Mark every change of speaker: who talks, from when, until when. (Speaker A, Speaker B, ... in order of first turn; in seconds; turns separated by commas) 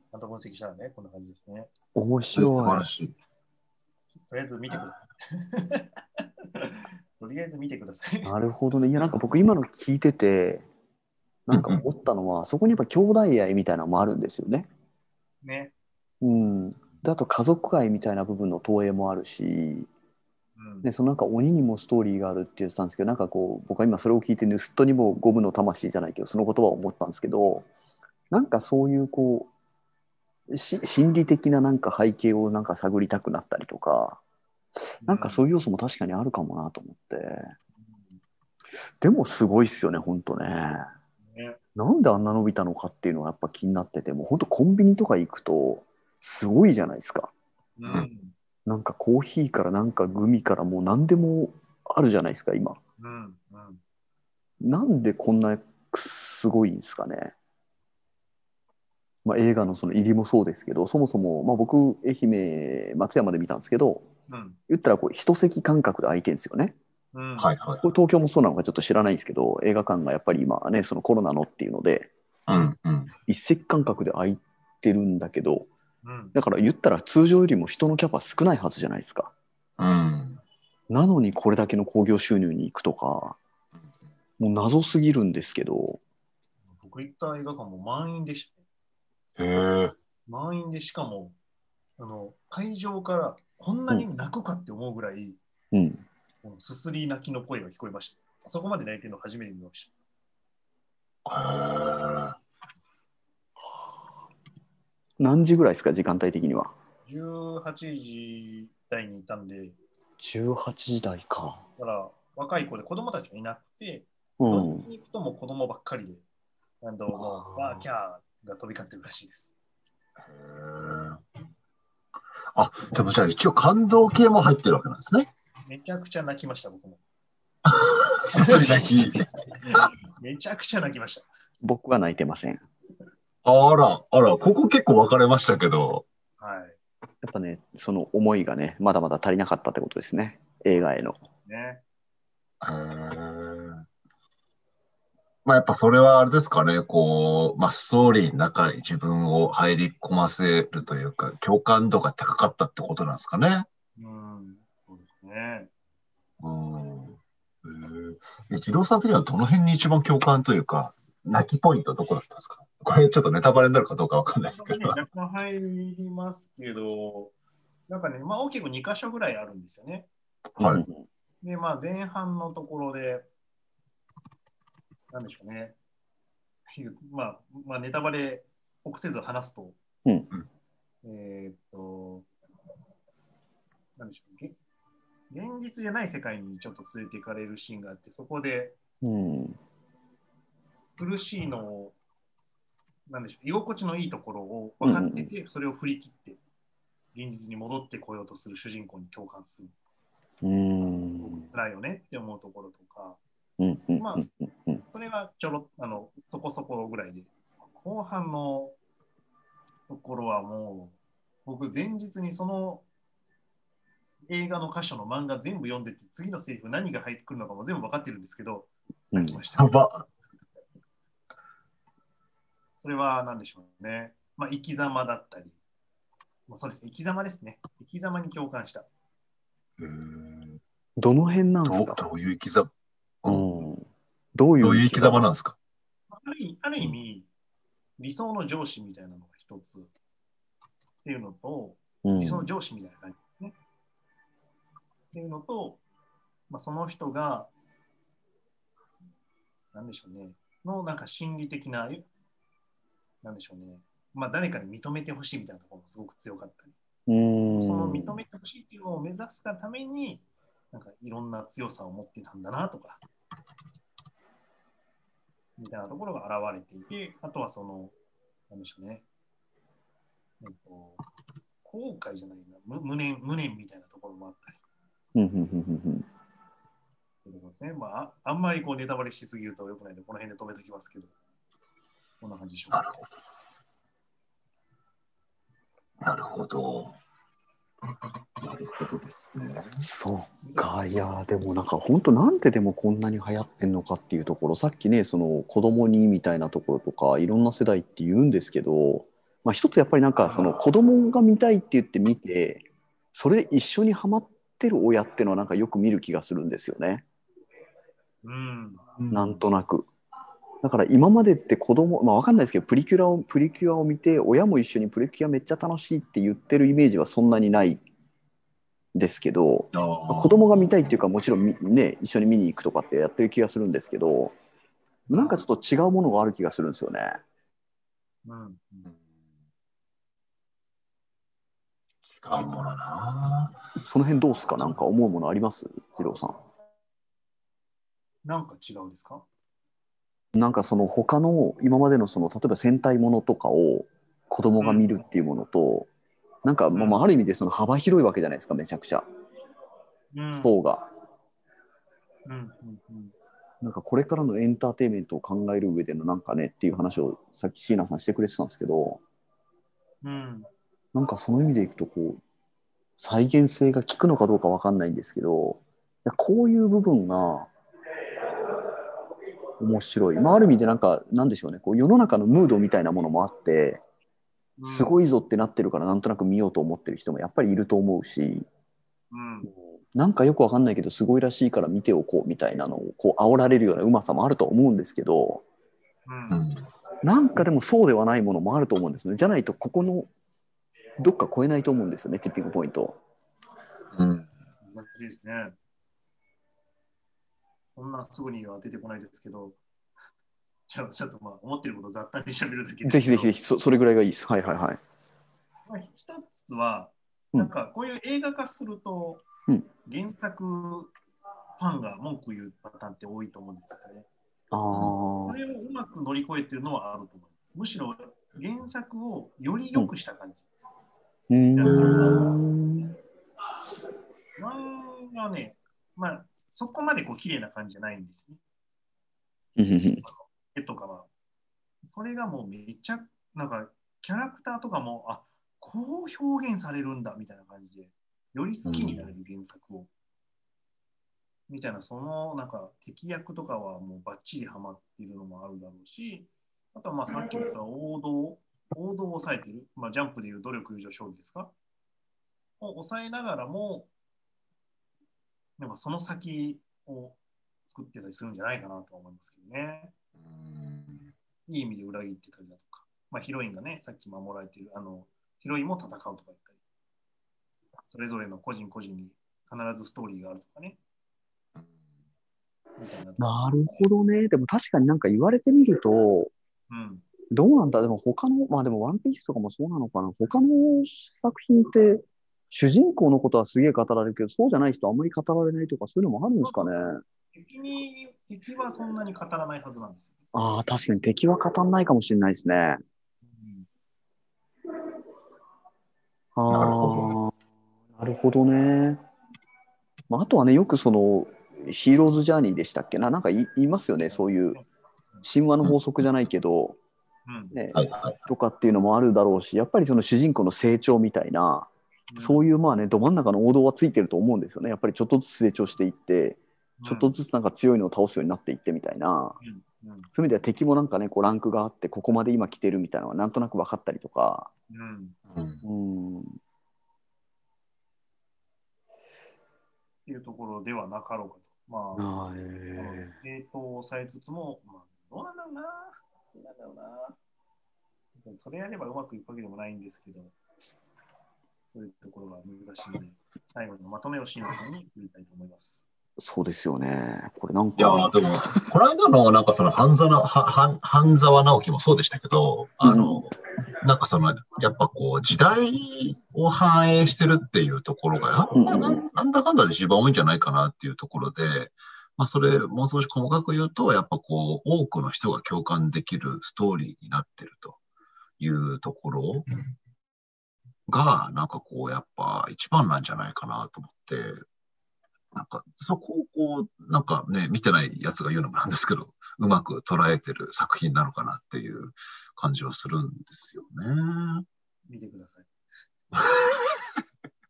Speaker A: 0.1-1.7, Speaker B: 1.9-2.9, Speaker C: 2.3-3.1, Speaker A: 4.3-8.3, Speaker B: 8.2-10.7, Speaker B: 11.5-14.7, Speaker C: 11.5-11.8, Speaker A: 15.4-15.7, Speaker B: 16.2-19.9, Speaker A: 20.6-20.9, Speaker B: 20.8-27.7, Speaker B: 28.3-29.5, Speaker B: 30.5-34.2, Speaker B: 34.8-37.5, Speaker A: 35.0-35.5, Speaker A: 37.8-38.2, Speaker B: 39.0-40.9, Speaker A: 41.2-41.6, Speaker B: 41.7-47.3, Speaker A: 47.8-48.3, Speaker B: 48.6-52.8, Speaker A: 53.0-53.8, Speaker B: 54.6-57.3, Speaker B: 59.2-64.1, Speaker A: 64.3-64.6, Speaker B: 64.7-66.8, Speaker A: 67.1-67.5, Speaker C: 67.4-67.9, Speaker B: 67.8-72.1, Speaker C: 72.5-73.1, Speaker B: 73.3-75.7, Speaker A: 76.0-76.3, Speaker B: 76.3-79.3, Speaker C: 79.8-80.4, Speaker B: 80.9-83.4, Speaker B: 84.4-86.0, Speaker A: 86.7-88.6, Speaker C: 89.4-89.9, Speaker A: 90.3-91.3, Speaker A: 92.0-95.4, Speaker B: 95.7-96.0, Speaker A: 96.4-99.9, Speaker C: 101.2-102.4, Speaker B: 105.2-106.7, Speaker A: 107.0-109.8, Speaker B: 110.2-111.6, Speaker A: 111.8-116.2, Speaker B: 114.4-114.9, Speaker A: 116.8-119.5, Speaker B: 117.1-117.8, Speaker C: 120.2-121.2, Speaker C: 122.5-125.3, Speaker A: 125.7-127.0, Speaker C: 127.7-129.9, Speaker A: 128.3-128.9, Speaker A: 129.6-131.3, Speaker B: 131.6-132.6, Speaker C: 133.4-136.1, Speaker A: 136.4-136.8, Speaker B: 137.2-141.2, Speaker A: 141.4-141.8, Speaker C: 142.6-143.8, Speaker C: 145.4-153.7, Speaker A: 154.0-155.7, Speaker C: 156.4-165.0, Speaker A: 164.5-167.3, Speaker A: 167.9-170.1, Speaker C: 170.6-170.8, Speaker B: 170.6-171.1, Speaker A: 171.4-173.3, Speaker A: 175.1-175.8, Speaker A: 176.7-179.8, Speaker A: 181.0-182.3, Speaker A: 183.9-184.6, Speaker A: 185.3-188.8, Speaker B: 189.0-189.6, Speaker A: 191.0-192.0, Speaker A: 193.1-196.4, Speaker B: 194.8-195.3, Speaker A: 197.1-199.7, Speaker B: 200.4-201.5, Speaker A: 201.2-203.2, Speaker B: 203.6-204.8, Speaker A: 204.0-204.2, Speaker A: 204.9-208.7, Speaker A: 209.9-212.8, Speaker A: 214.3-219.7, Speaker B: 219.1-219.4, Speaker C: 219.6-220.1, Speaker A: 222.8-225.6, Speaker A: 226.5-228.9, Speaker C: 229.8-230.6, Speaker B: 231.0-232.0, Speaker C: 231.6-232.7, Speaker C: 233.2-233.5, Speaker B: 233.2-235.3, Speaker C: 234.6-235.6, Speaker A: 236.1-237.3, Speaker A: 238.0-239.9, Speaker A: 241.0-243.6, Speaker B: 242.0-242.5, Speaker A: 245.1-245.8, Speaker A: 246.5-247.5, Speaker A: 249.7-252.1, Speaker A: 253.2-256.7, Speaker B: 257.1-258.2, Speaker A: 257.5-263.0, Speaker A: 265.6-267.9, Speaker A: 268.5-269.0, Speaker A: 270.4-271.0, Speaker A: 271.6-274.6, Speaker B: 275.1-276.1, Speaker A: 277.2-281.1, Speaker A: 282.2-282.8, Speaker C: 282.7-283.2, Speaker C: 286.0-287.0, Speaker C: 288.4-289.8, Speaker B: 289.8-307.0, Speaker A: 300.2-300.6, Speaker A: 308.2-309.4, Speaker C: 309.0-309.2, Speaker B: 309.1-309.9, Speaker B: 310.6-317.8, Speaker B: 318.9-324.3, Speaker C: 319.7-320.8, Speaker B: 325.1-327.2, Speaker A: 325.1-325.4, Speaker A: 328.2-328.9, Speaker C: 332.1-333.6, Speaker B: 333.9-336.4, Speaker A: 338.2-339.2, Speaker B: 340.3-345.9, Speaker A: 344.6-345.0, Speaker B: 346.4-349.0, Speaker A: 346.7-347.0, Speaker A: 350.1-350.5, Speaker B: 350.4-350.8, Speaker A: 352.2-353.1, Speaker B: 353.6-359.0, Speaker A: 360.0-360.5, Speaker B: 360.9-362.2, Speaker B: 363.0-367.5, Speaker B: 369.6-373.8, Speaker A: 374.6-375.0, Speaker B: 374.6-378.5, Speaker A: 379.1-379.5, Speaker B: 379.9-385.4, Speaker A: 386.1-386.4, Speaker C: 386.3-386.6, Speaker B: 387.0-390.1, Speaker B: 391.0-393.0, Speaker C: 393.9-394.3, Speaker A: 394.6-395.6, Speaker A: 397.7-399.6, Speaker A: 400.7-403.3, Speaker B: 402.8-404.8, Speaker A: 405.7-409.2, Speaker A: 409.9-410.9, Speaker A: 411.6-414.1, Speaker B: 414.5-415.4, Speaker A: 415.2-420.5, Speaker B: 421.3-422.9, Speaker A: 421.5-422.3, Speaker C: 421.6-422.3, Speaker A: 424.4-428.4, Speaker B: 429.6-430.0, Speaker A: 430.0-431.1, Speaker A: 431.8-439.9, Speaker C: 438.7-439.0, Speaker A: 441.5-451.5, Speaker A: 452.6-453.9, Speaker A: 455.6-459.9, Speaker C: 460.2-461.1, Speaker A: 461.5-466.6, Speaker A: 467.9-470.8, Speaker A: 472.8-473.7, Speaker B: 473.2-476.3, Speaker A: 476.7-477.0, Speaker B: 477.3-487.0, Speaker A: 486.4-486.7, Speaker A: 487.3-490.2, Speaker B: 490.3-492.8, Speaker A: 493.2-493.7, Speaker B: 496.4-497.3, Speaker C: 496.5-497.2, Speaker B: 497.9-499.0, Speaker B: 500.1-504.6, Speaker A: 504.1-505.2, Speaker B: 505.2-506.8, Speaker A: 507.2-507.6, Speaker B: 507.5-519.4, Speaker C: 507.7-508.2, Speaker A: 512.1-512.5, Speaker A: 516.8-517.2, Speaker A: 519.4-520.1, Speaker B: 520.1-524.5, Speaker A: 524.7-525.2, Speaker C: 525.3-525.6, Speaker B: 525.6-526.3, Speaker A: 530.0-532.1, Speaker B: 532.0-533.1, Speaker A: 532.8-537.1, Speaker A: 538.1-540.3, Speaker A: 541.7-545.8, Speaker B: 546.2-548.1, Speaker C: 547.8-567.8, Speaker B: 552.8-553.2, Speaker B: 558.5-559.0, Speaker C: 568.4-569.5, Speaker C: 570.9-574.4, Speaker C: 575.3-584.4, Speaker A: 584.9-585.5, Speaker C: 586.1-586.8